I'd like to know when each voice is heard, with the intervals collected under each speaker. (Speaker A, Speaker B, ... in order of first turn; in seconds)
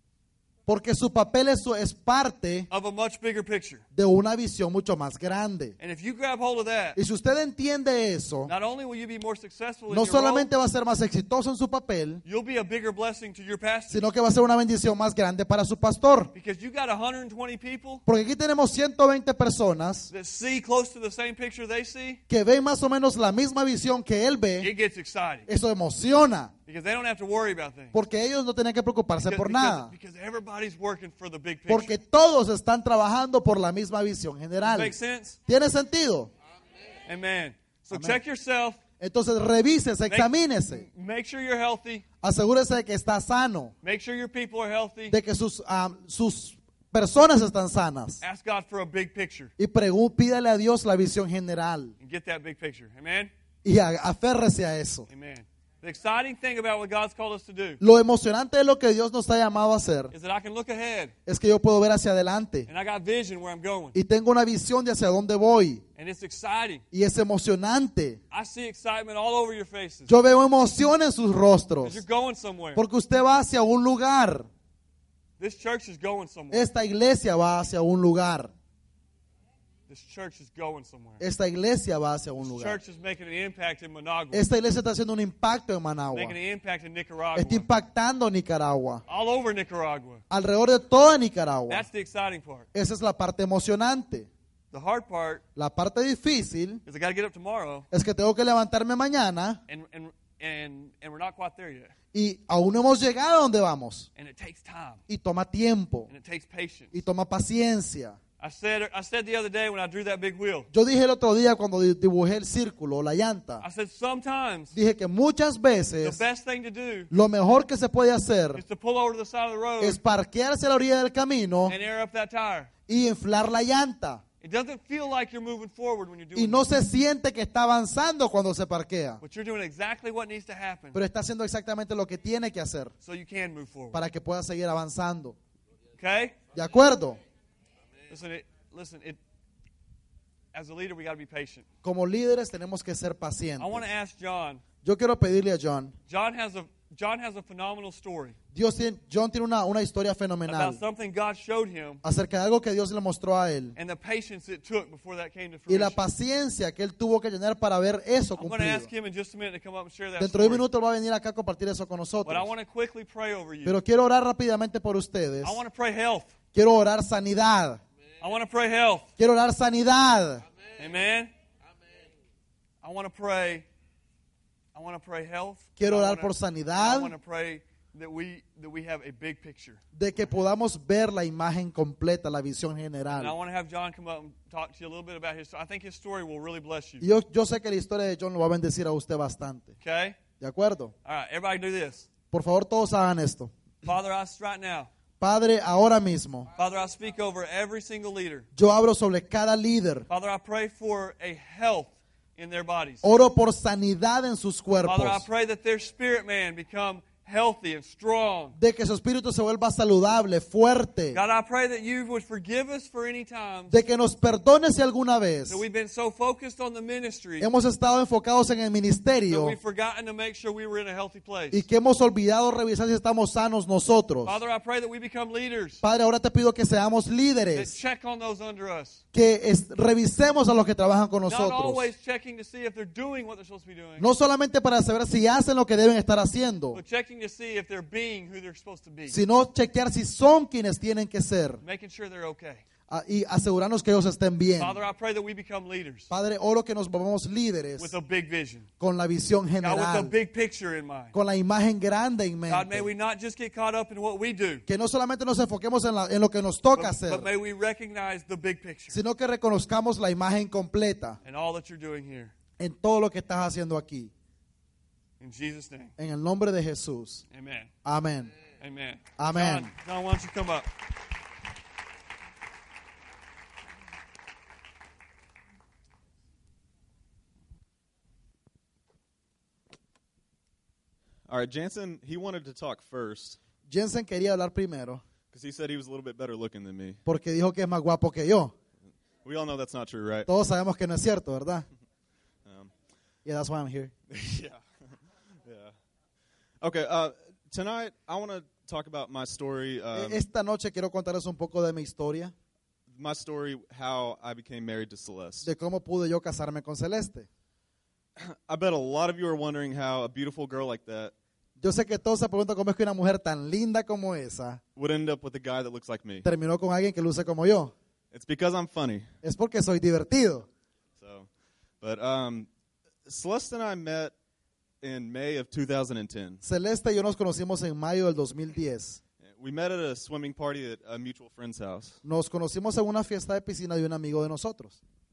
Speaker A: 0.7-2.7, 3.9-5.8, 7.0-8.5, 9.9-12.2, 13.9-16.3, 18.1-20.1, 22.3-24.7, 25.5-26.5, 27.9-29.9, 31.7-35.0, 35.5-36.3, 37.9-38.2, 39.0-40.9, 42.2-43.7, 45.1-48.2, 49.6-52.0, 53.6-55.1, 57.8-60.1, 61.3-62.7, 63.9-65.8, 66.9-68.2, 70.1-72.0, 72.8-74.5, 76.5-78.5, 81.2-82.8, 84.3-86.4, 87.3-89.0, 90.3-91.9, 92.7-94.3, 95.6-96.8, 97.9-99.6, 102.1-104.1, 105.1-106.1, 106.9-108.2, 110.7-113.7, 114.7-116.2, 117.1-118.6, 119.8-121.8, 122.9-124.2, 126.3-129.2, 130.9-132.9, 133.9-135.4, 136.5-137.2, 141.8-143.9, 144.8-145.9, 148.5-150.8, 152.0-153.8, 155.7-158.9, 160.2-162.5, 163.7-165.6, 166.5-167.8, 169.2-170.4, 175.8-177.1, 179.9-183.3, 187.0-189.8, 190.4-190.9, 192.3-193.5, 195.2-196.5, 198.6-200.1, 203.0-205.3, 208.6-211.2, 213.7-215.6, 217.4-219.6, 221.5-224.4, 225.8-227.8, 229.1-231.9, 234.0-236.8, 239.1-241.6, 242.9-244.8, 246.1-247.9, 248.8-250.1, 251.1-252.9, 254.7-257.3, 258.9-261.2, 262.6-264.1, 266.0-267.2, 267.9-268.3, 269.2-269.7, 283.7-285.0, 287.1-288.5, 290.3-291.7, 293.2-293.9, 299.9-302.3, 305.4-307.3, 311.6-314.6, 316.2-317.7, 319.2-320.5, 326.4-329.0, 332.1-334.8
Speaker B: 2.7-3.8, 5.8-7.0, 8.5-10.5, 12.2-14.0, 16.3-18.0, 20.1-22.2, 24.6-25.5, 26.7-28.0, 29.2-31.9, 34.6-35.4, 37.1-38.8, 40.1-42.0, 43.8-45.2, 48.2-49.5, 52.0-53.3, 55.1-57.8, 60.1-61.1, 62.7-64.0, 66.0-66.8, 68.3-70.1, 71.8-72.8, 75.4-76.7, 79.9-81.2, 82.4-84.5, 86.1-87.7, 89.1-90.2, 91.7-92.7, 94.7-95.4, 96.9-97.9, 99.7-101.9, 104.2-105.0, 106.1-107.0, 108.4-110.7, 113.6-114.8, 116.0-117.1, 118.5-120.0, 121.7-122.7, 124.4-126.7, 129.2-131.0, 133.0-134.0, 136.0-136.4, 138.1-139.2, 140.5-141.7, 143.6-144.6, 146.1-148.4, 150.5-152.0, 153.8-156.1, 158.4-160.7, 162.2-163.8, 165.4-166.3, 168.2-169.1, 170.8-171.3, 172.8-173.7, 174.7-179.8, 183.1-187.1, 189.8-190.2, 191.1-192.1, 193.8-194.9, 196.6-198.5, 200.1-203.1, 204.8-208.6, 211.1-213.8, 215.5-217.5, 219.3-221.7, 224.2-225.8, 227.5-229.0, 231.3-234.1, 236.7-239.2, 241.6-242.6, 244.6-246.1, 247.8-248.7, 249.6-251.1, 252.5-254.6, 256.7-259.0, 261.2-262.3, 265.2-265.9, 267.3-267.7, 268.5-270.7
Speaker C: 281.3-283.4, 285.3-287.0, 289.2-290.3, 292.5-292.7, 294.1-294.6, 295.4-295.8, 296.6-300.2, 302.9-305.5, 308.2-311.1, 314.8-316.3, 318.1-319.1, 321.0-321.3, 321.8-322.5, 323.1-324.1, 324.8-326.4, 329.2-332.0